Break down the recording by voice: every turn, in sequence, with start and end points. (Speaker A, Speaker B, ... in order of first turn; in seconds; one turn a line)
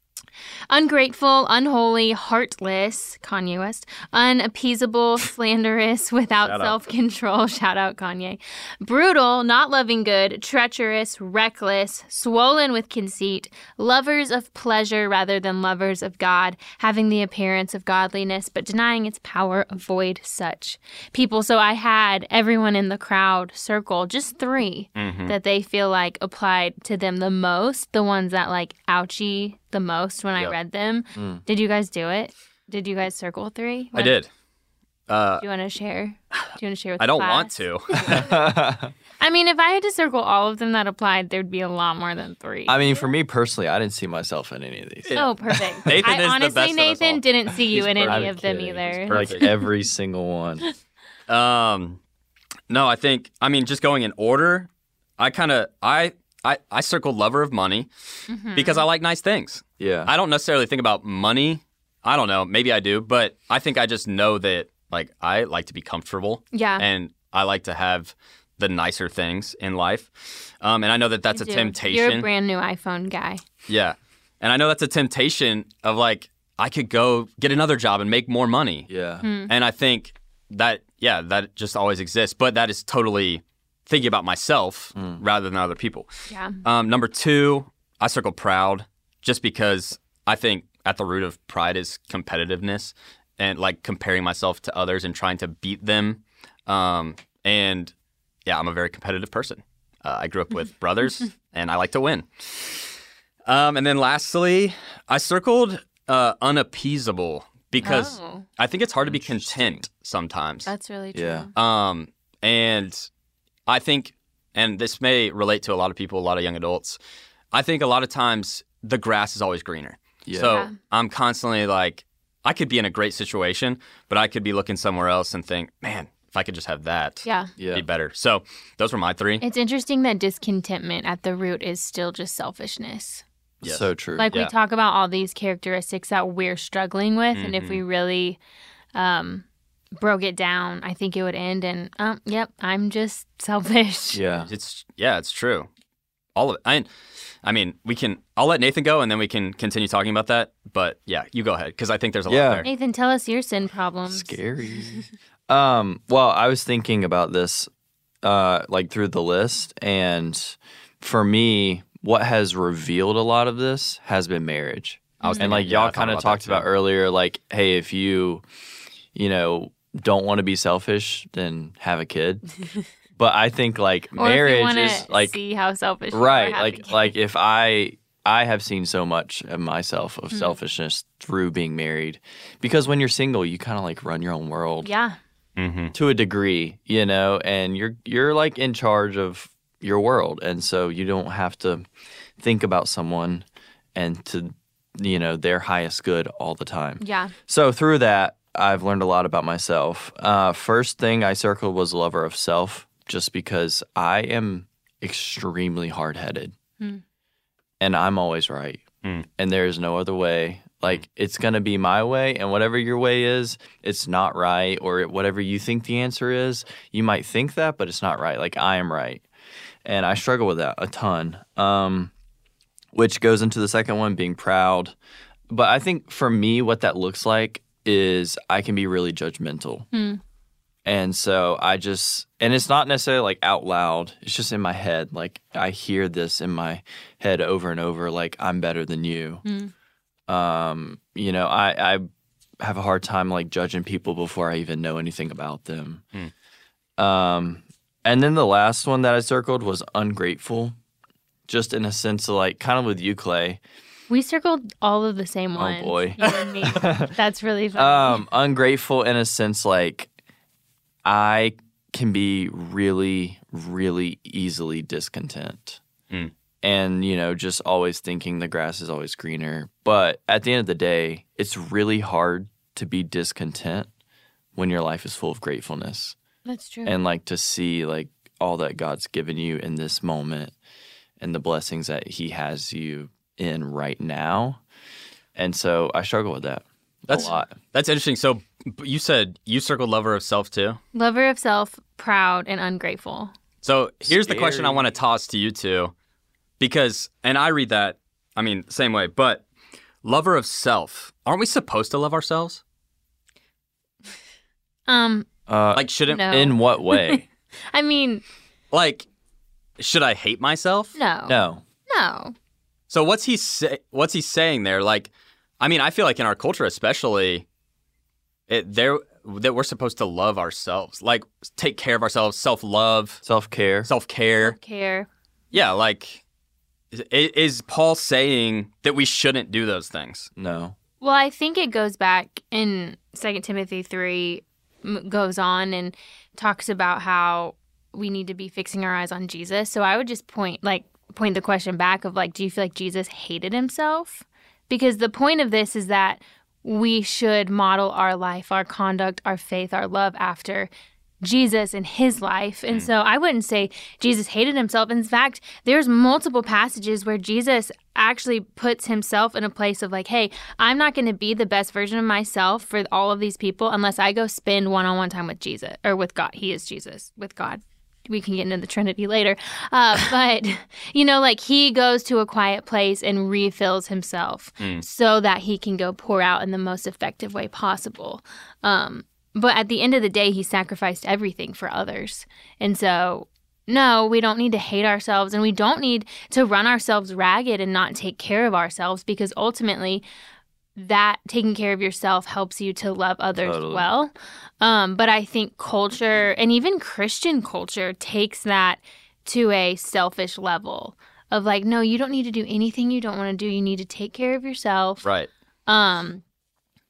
Speaker A: 0.7-34.2
Speaker B: 6.4-6.7
Speaker B: 25.0-25.4
Speaker C: 31.1-31.4
Speaker B: 34.0-34.3
Speaker B: 35.1-35.4
Speaker A: 35.4-38.4
Speaker B: 37.0-38.3
Speaker C: 38.1-38.9
Speaker A: 39.2-43.1
Speaker C: 42.7-45.2
Speaker B: 45.1-49.5
Speaker A: 45.1-49.6
Speaker C: 45.9-46.1
Speaker C: 47.6-50.6
Speaker B: 51.3-52.0
Speaker B: 52.7-57.9
Speaker A: 58.3-58.9
Speaker B: 58.5-72.3
Speaker C: 59.8-60.1
Speaker A: 66.5-66.9
Speaker A: 71.3-73.4
Speaker B: 73.7-78.9
Speaker C: 78.9-79.2
Speaker A: 79.2-79.5
Speaker B: 79.5-86.1
Speaker C: 85.0-85.2
Speaker A: 86.3-86.6
Speaker B: 86.6-97.9
Speaker B: 98.5-102.9
Speaker B: 103.5-110.7
Speaker A: 107.8-108.5
Speaker C: 109.0-109.9
Speaker A: 110.7-111.5
Speaker C: 111.1-111.5
Speaker B: 111.5-113.1
Speaker B: 113.7-117.0
Speaker B: 117.5-129.4
Speaker C: 120.3-120.6
Speaker A: 120.5-120.8
Speaker A: 127.2-127.5
Speaker C: 127.6-127.8
Speaker A: 129.4-133.2
Speaker C: 133.6-134.3
Speaker B: 133.6-134.5
Speaker A: 134.2-138.4
Speaker B: 137.3-137.8
Speaker A: 138.9-139.4
Speaker A: 140.0-144.2
Speaker C: 144.1-144.5
Speaker B: 144.5-145.7
Speaker B: 146.3-146.9
Speaker B: 147.4-152.7
Speaker C: 152.3-152.7
Speaker A: 152.6-155.1
Speaker C: 154.1-157.7
Speaker C: 158.2-168.4
Speaker A: 165.2-165.6
Speaker B: 165.2-166.7
Speaker C: 169.2-172.4
Speaker C: 173.2-175.4
Speaker A: 174.2-177.0
Speaker C: 176.1-184.9
Speaker A: 180.3-180.6
Speaker A: 184.8-185.2
Speaker B: 185.6-185.9
Speaker C: 185.9-191.8
Speaker C: 192.4-206.6
Speaker A: 197.0-197.3
Speaker C: 207.8-208.8
Speaker C: 209.4-219.2
Speaker C: 219.8-222.1
Speaker C: 222.9-224.9
Speaker C: 225.5-229.9
Speaker A: 229.9-230.2
Speaker C: 230.8-239.4
Speaker A: 239.4-239.7
Speaker C: 240.3-242.1
Speaker C: 242.6-246.0
Speaker C: 247.0-250.8
Speaker C: 251.5-253.6
Speaker A: 254.1-258.2
Speaker C: 255.6-257.1
Speaker C: 257.8-260.1
Speaker C: 261.1-265.8
Speaker C: 266.6-273.9
Speaker C: 274.6-276.2
Speaker A: 276.5-277.0
Speaker C: 276.9-280.6
Speaker C: 281.2-284.6
Speaker C: 285.4-287.6
Speaker B: 287.1-290.8
Speaker A: 290.9-293.3
Speaker B: 293.6-295.9
Speaker C: 294.0-294.9
Speaker B: 296.6-299.4
Speaker B: 300.0-302.6
Speaker A: 304.9-305.3
Speaker C: 305.5-307.2
Speaker B: 305.8-306.4
Speaker A: 306.1-308.2
Speaker B: 308.7-309.1
Speaker B: 309.8-311.0
Speaker A: 311.0-312.3
Speaker C: 311.3-311.6
Speaker B: 312.9-317.4
Speaker B: 318.5-323.2
Speaker C: 323.2-323.9
Speaker B: 323.9-324.6
Speaker A: 324.4-325.1
Speaker B: 325.5-326.2
Speaker B: 326.9-330.3
Speaker C: 330.4-330.8
Speaker A: 331.0-350.7
Speaker A: 351.2-390.1
Speaker A: 390.8-405.1
Speaker C: 393.4-393.9
Speaker B: 405.0-405.3
Speaker A: 405.7-406.2